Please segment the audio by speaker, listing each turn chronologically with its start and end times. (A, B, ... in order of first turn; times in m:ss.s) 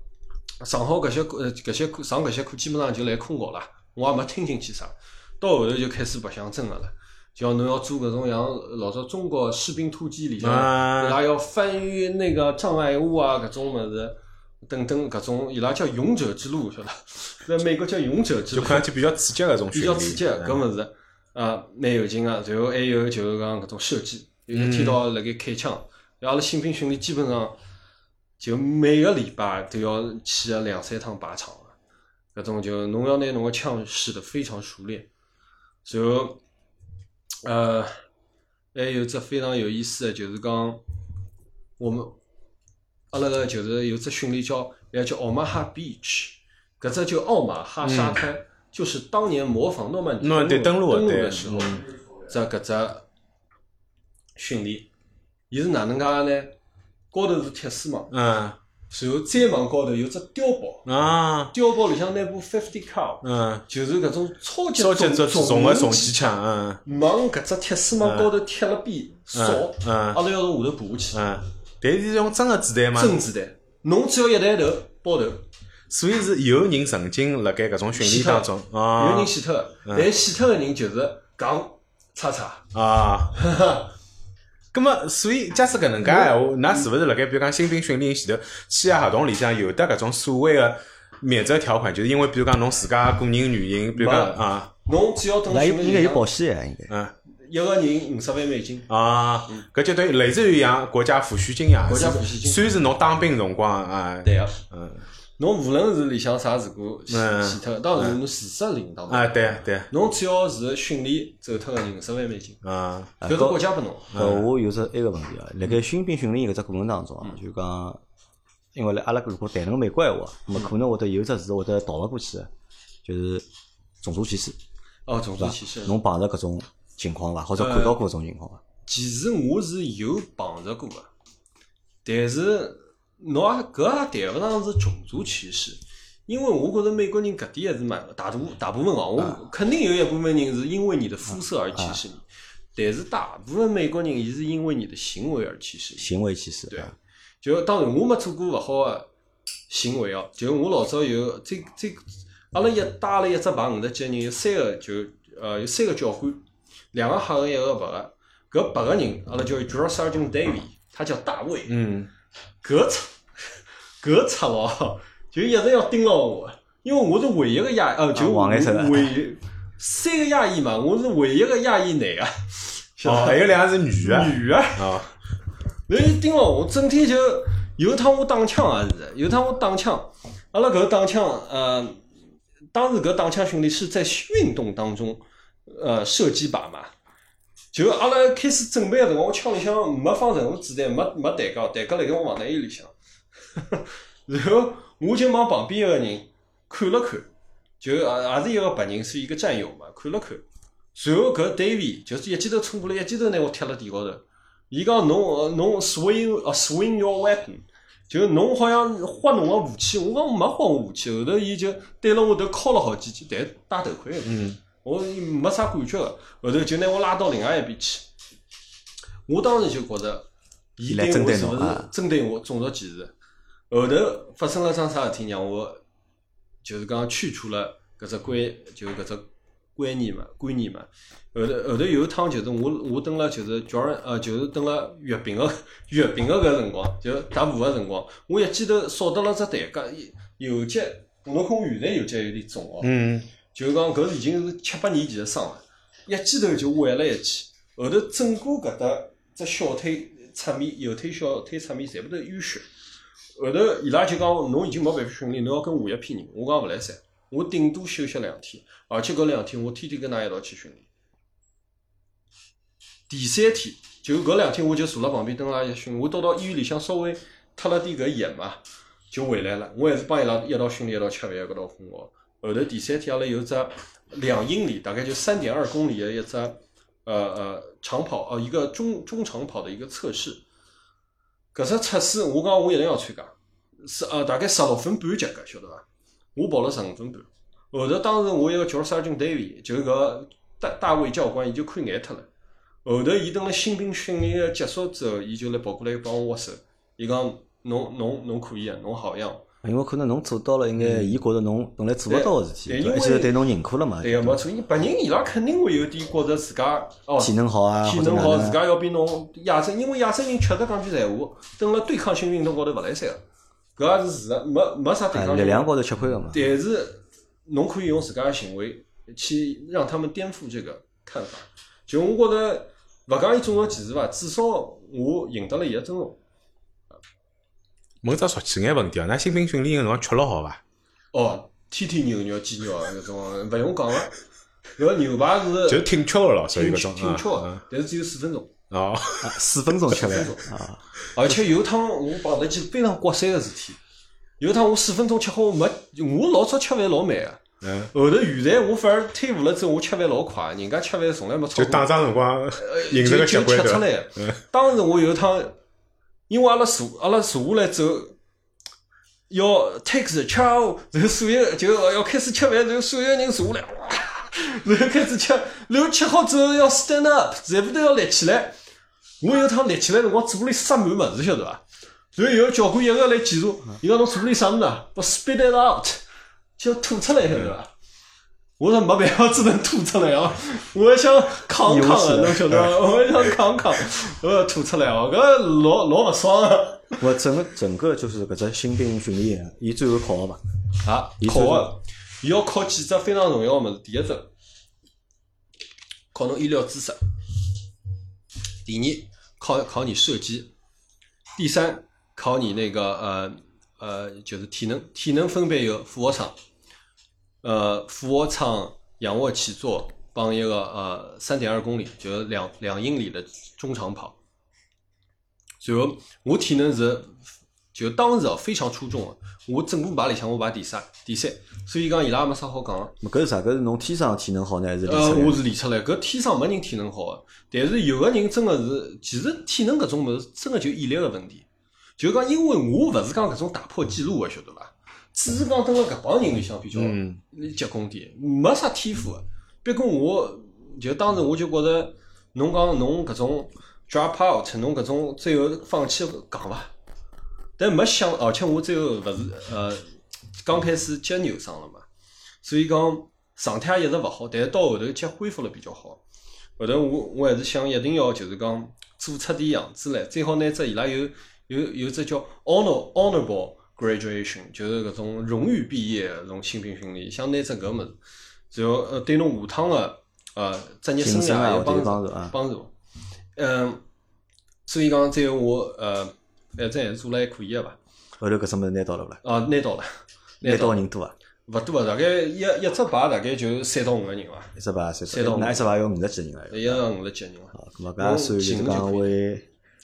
0:00.6-0:18.9 A
0:10.4-0:11.2 B
0:18.5-0:20.6 B
0:19.7-0:27.6 A
0:24.5-0:25.0 B
0:28.4-0:31.8 A
0:32.3-0:35.1 A
0:35.8-0:36.4 A
0:37.4-0:37.9 A
0:38.7-0:40.8 A
0:41.8-0:42.2 A
0:43.1-0:53.0 A
0:47.8-0:48.2 B
0:50.2-0:51.9 B
0:54.4-0:54.9 A
0:55.5-0:56.6 A
0:57.1-0:58.1 A
0:58.1-0:58.6 B
0:58.9-1:00.9 A
1:00.9-1:01.5 B
1:01.5-1:11.2 A
1:03.2-1:03.6 B
1:04.8-1:06.8 B
1:08.0-1:08.3 B
1:09.3-1:10.2 B
1:11.1-1:13.2 B
1:13.0-1:15.5 A
1:15.9-1:19.3 B
1:17.9-1:22.6 A
1:19.8-1:20.1 B
1:22.7-1:23.4 B
1:23.3-1:23.9 A
1:24.7-1:34.7 B
1:33.9-1:36.3 A
1:35.5-1:36.9 C
1:37.3-1:38.9 A
1:38.9-1:45.0 B
1:41.9-1:42.7 A
1:44.2-1:44.6 A
1:45.4-1:52.6 A
1:47.1-1:48.2 B
1:49.1-1:49.9 B
1:52.6-1:53.2 B
1:53.2-1:58.0 C
1:53.2-1:54.1 A
1:54.1-1:54.5 B
1:58.8-2:02.5 C
2:03.0-2:03.4 C
2:04.0-2:04.6 C
2:05.1-2:06.0 A
2:05.4-2:08.6 C
2:07.6-2:08.0 A
2:08.8-2:11.1 A
2:12.0-2:22.2 A
2:21.8-2:22.0 C
2:22.8-2:26.1 A
2:26.0-2:26.9 C
2:26.7-2:29.1 A
2:29.7-2:36.4 A
2:36.9-2:41.8 A
2:41.7-2:42.1 B
2:42.6-2:53.5 A
2:48.2-2:49.2 C
2:53.0-2:55.2 B
2:54.0-2:54.9 A
2:55.9-3:02.0 A
3:02.7-3:06.9 A
3:07.7-3:12.9 A
3:13.6-3:38.1 A
3:34.2-3:34.6 B
3:39.3-3:43.1 A
3:40.9-3:41.9 C
3:43.7-3:45.8 A
3:46.6-4:02.9 A
4:02.8-4:03.3 B
4:03.5-4:12.6 A
4:13.4-4:20.9 A
4:23.1-4:40.4 A
4:41.5-4:52.3 A
4:52.8-4:59.4 A
4:59.6-5:04.4 C
5:00.8-5:01.1 B
5:02.1-5:03.4 A
5:04.0-5:13.2 A
5:07.2-5:08.6 C
5:13.8-5:15.7 A
5:15.1-5:16.5 C
5:16.3-5:26.2 A
5:28.0-5:30.6 B
5:31.1-5:34.1 A
5:34.8-5:35.9 A
5:35.7-5:37.6 B
5:36.5-5:38.5 A
5:38.7-5:39.4 B
5:39.2-5:40.8 C
5:39.9-5:40.5 A
5:41.1-5:43.8 A
5:44.4-5:47.4 A
5:47.6-5:47.9 B
5:47.9-5:51.9 A
5:51.6-5:54.4 B
5:52.6-5:55.6 A
5:56.3-5:58.2 A
5:59.3-6:08.6 A
6:09.2-6:11.6 A
6:12.2-6:16.0 A
6:16.6-6:17.7 A
6:18.6-6:27.1 A
6:21.6-6:22.7 C
6:27.0-6:30.4 C
6:30.8-6:34.3 A
6:31.2-6:31.7 C
6:36.1-6:37.0 A
6:38.6-6:40.5 A
6:41.4-6:46.4 A
6:47.4-6:54.2 A
6:55.6-7:02.9 A
7:03.0-7:05.4 C
7:04.8-7:11.5 A
7:12.0-7:26.7 A
7:16.7-7:17.2 B
7:27.6-7:29.8 A
7:30.4-7:31.8 A
7:32.4-7:36.0 A
7:36.6-7:48.0 A
7:48.5-7:52.7 A
7:51.0-7:52.4 C
7:53.4-7:53.8 A
7:54.6-7:57.8 A
7:58.2-7:59.2 C
7:59.2-7:59.9 A
8:00.4-8:00.8 A
8:00.4-8:01.2 C
8:01.5-8:04.5 A
8:04.6-8:06.8 C
8:05.1-8:05.7 A
8:06.5-8:09.2 A
8:07.6-8:09.5 C